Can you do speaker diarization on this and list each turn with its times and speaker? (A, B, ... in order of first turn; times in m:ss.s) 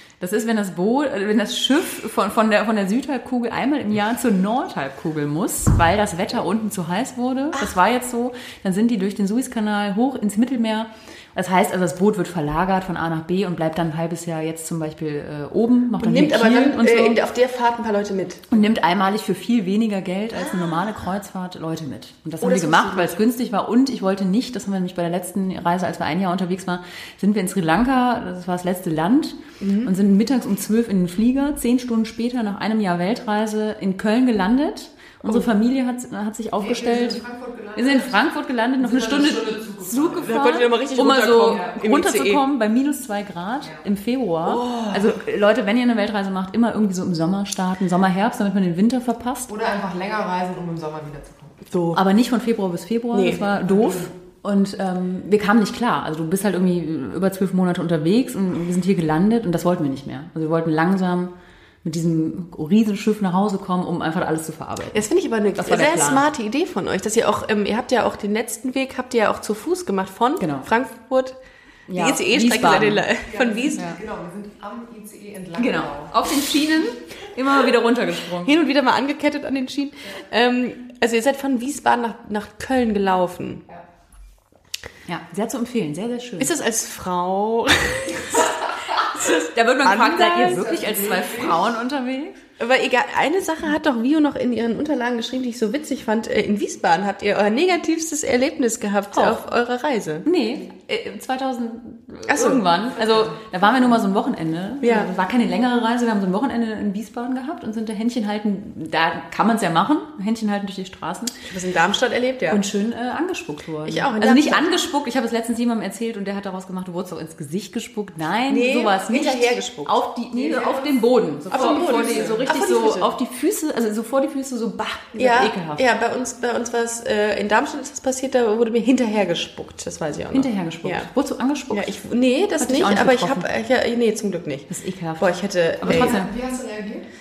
0:00.2-0:17.2 A
0:16.0-0:18.5 B
0:18.5-0:37.2 A
0:20.4-0:20.7 B
0:22.4-0:23.2 B
0:29.6-0:29.9 B
0:36.6-0:38.2 C
0:37.7-0:49.5 A
0:38.8-0:40.6 C
0:40.2-0:42.4 B
0:44.4-0:45.2 B
0:49.5-0:51.6 C
0:51.7-0:52.0 B
0:51.9-1:06.2 A
0:53.1-0:53.4 B
0:53.6-0:54.1 C
1:04.9-1:11.4 B
1:10.4-1:10.7 A
1:11.9-1:13.0 A
1:11.9-1:13.8 B
1:13.3-1:16.2 C
1:15.6-1:18.6 A
1:18.4-1:23.6 B
1:25.1-1:26.5 A
1:26.4-1:30.7 B
1:29.2-1:32.4 A
1:30.4-1:31.7 C
1:32.6-1:40.2 B
1:39.1-1:39.4 A
1:40.2-1:51.4 A
1:42.3-1:42.6 B
1:44.8-1:45.1 B
1:51.4-1:52.6 B
1:52.5-2:05.8 A
1:53.8-1:54.7 B
1:58.5-2:00.9 B
2:01.5-2:03.1 B
2:01.5-2:02.5 C
2:05.1-2:11.1 B
2:10.3-2:11.9 A
2:11.7-2:16.2 B
2:12.6-2:13.5 A
2:14.7-2:16.3 A
2:15.8-2:17.1 C